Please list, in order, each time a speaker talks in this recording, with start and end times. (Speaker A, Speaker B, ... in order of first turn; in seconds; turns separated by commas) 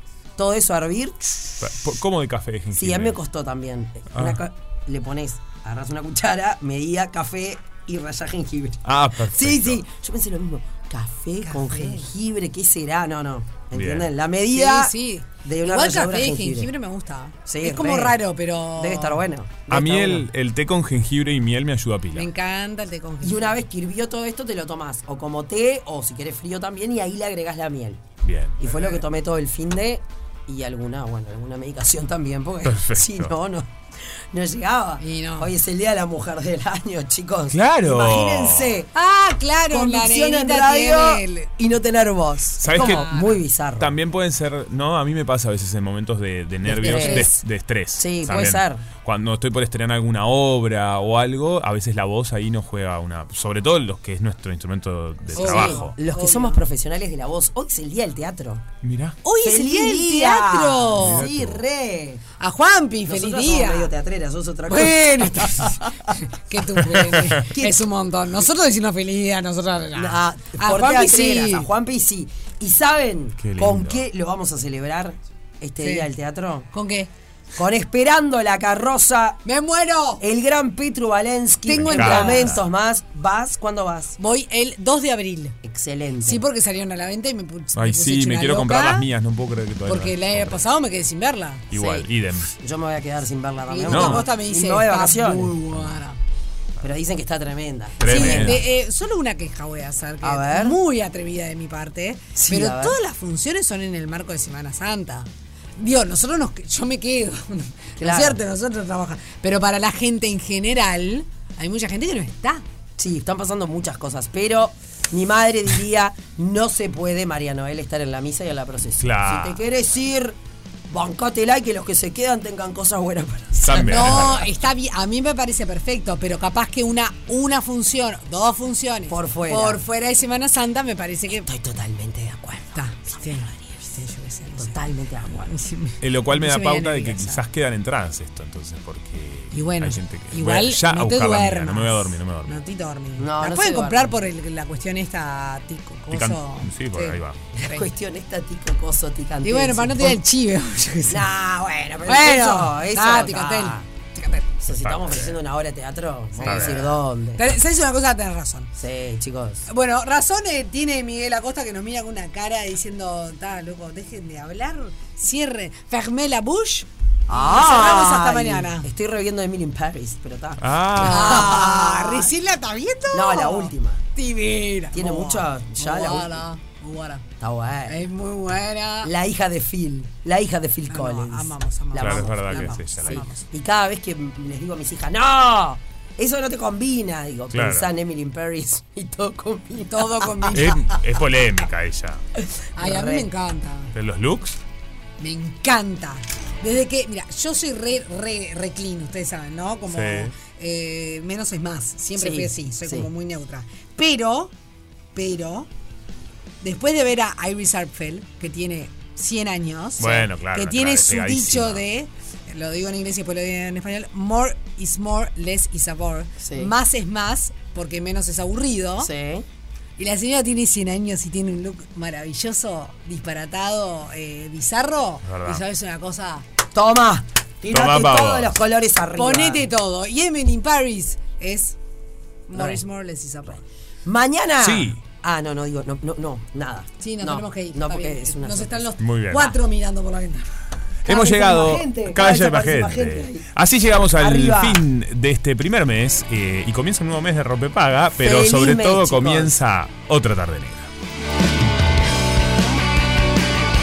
Speaker A: 0.4-1.6, Speaker B: 1.6-3.2, Speaker A: 2.7-16.7, Speaker B: 4.1-4.4, Speaker B: 8.8-9.8, Speaker C: 11.4-12.1, Speaker B: 13.7-14.1, Speaker C: 14.5-19.2, Speaker A: 17.4-18.2, Speaker A: 18.7-20.3, Speaker B: 19.7-22.3, Speaker C: 22.1-23.6, Speaker A: 23.2-28.0, Speaker B: 28.2-28.6, Speaker A: 28.6-38.9, Speaker B: 32.6-33.3, Speaker C: 35.0-35.5, Speaker B: 37.5-38.7, Speaker C: 38.9-41.5, Speaker A: 39.7-43.9, Speaker B: 42.6-43.1, Speaker C: 42.7-43.4, Speaker B: 43.8-55.9, Speaker A: 46.6-47.4, Speaker C: 46.7-47.3, Speaker A: 47.9-48.8, Speaker A: 55.3-58.6, Speaker C: 55.3-56.6, Speaker B: 58.8-59.2, Speaker C: 59.2-61.3, Speaker A: 59.3-62.2, Speaker B: 61.0-61.6, Speaker C: 62.4-63.9, Speaker A: 63.0-66.1, Speaker C: 64.7-71.7, Speaker B: 67.0-67.2, Speaker A: 67.3-67.8, Speaker A: 69.9-76.7, Speaker B: 73.4-74.0, Speaker C: 75.8-76.1, Speaker C: 76.7-77.1, Speaker A: 77.5-79.4, Speaker C: 79.4-80.2, Speaker A: 80.2-84.2, Speaker C: 81.7-82.6, Speaker B: 81.7-82.6, Speaker C: 84.2-85.5, Speaker A: 85.6-86.5, Speaker C: 86.2-89.1, Speaker B: 87.7-90.6, Speaker C: 89.8-92.1, Speaker B: 91.7-92.5, Speaker A: 92.5-95.6, Speaker C: 93.7-96.2, Speaker B: 93.9-94.2, Speaker A: 96.8-98.6, Speaker C: 98.0-112.6, Speaker B: 98.0-98.6, Speaker A: 100.2-100.8, Speaker A: 102.3-103.0, Speaker A: 108.0-108.4, Speaker A: 113.0-120.4, Speaker B: 119.0-119.6, Speaker A: 120.9-124.5, Speaker B: 123.6-124.5, Speaker C: 123.7-131.5, Speaker A: 129.1-129.8, Speaker A: 131.3-133.7, Speaker C: 132.7-137.4, Speaker A: 134.6-135.6, Speaker B: 136.0-142.6, Speaker C: 139.5-147.8, Speaker A: 143.2-144.2, Speaker B: 146.1-147.4, Speaker A: 147.5-150.2, Speaker C: 149.4-151.4, Speaker A: 151.1-153.8, Speaker C: 152.0-154.5, Speaker A: 154.6-157.5, Speaker B: 154.8-155.4, Speaker C: 156.3-158.7, Speaker B: 156.4-156.9, Speaker A: 158.8-159.7, Speaker C: 159.7-168.9, Speaker A: 167.3-172.3, Speaker B: 170.6-171.4, Speaker C: 171.0-177.2, Speaker A: 173.1-174.0, Speaker A: 174.9-176.4, Speaker A: 177.4-178.0, Speaker C: 177.8-179.1, Speaker A: 179.0-190.7, Speaker C: 180.9-183.5, Speaker B: 181.9-183.3, Speaker B: 187.5-187.9, Speaker C: 189.9-191.0, Speaker B: 190.5-192.2, Speaker C: 192.7-193.9, Speaker A: 192.8-193.3, Speaker B: 193.9-194.6, Speaker C: 195.2-204.5, Speaker B: 199.9-200.3, Speaker A: 202.1-203.1, Speaker C: 205.1-205.7, Speaker C: 206.6-219.1, Speaker B: 210.0-211.8, Speaker A: 216.4-216.7, Speaker A: 219.0-219.4, Speaker C: 220.0-226.4, Speaker B: 225.2-225.6, Speaker A: 226.7-229.7, Speaker B: 227.7-228.6, Speaker C: 229.2-231.8, Speaker C: 232.5-233.6, Speaker A: 232.5-232.8, Speaker A: 234.0-239.5, Speaker B: 234.6-235.0, Speaker C: 237.0-240.5, Speaker B: 239.0-239.5, Speaker A: 241.1-243.5, Speaker B: 241.1-250.9, Speaker A: 244.1-244.8, Speaker A: 248.2-249.6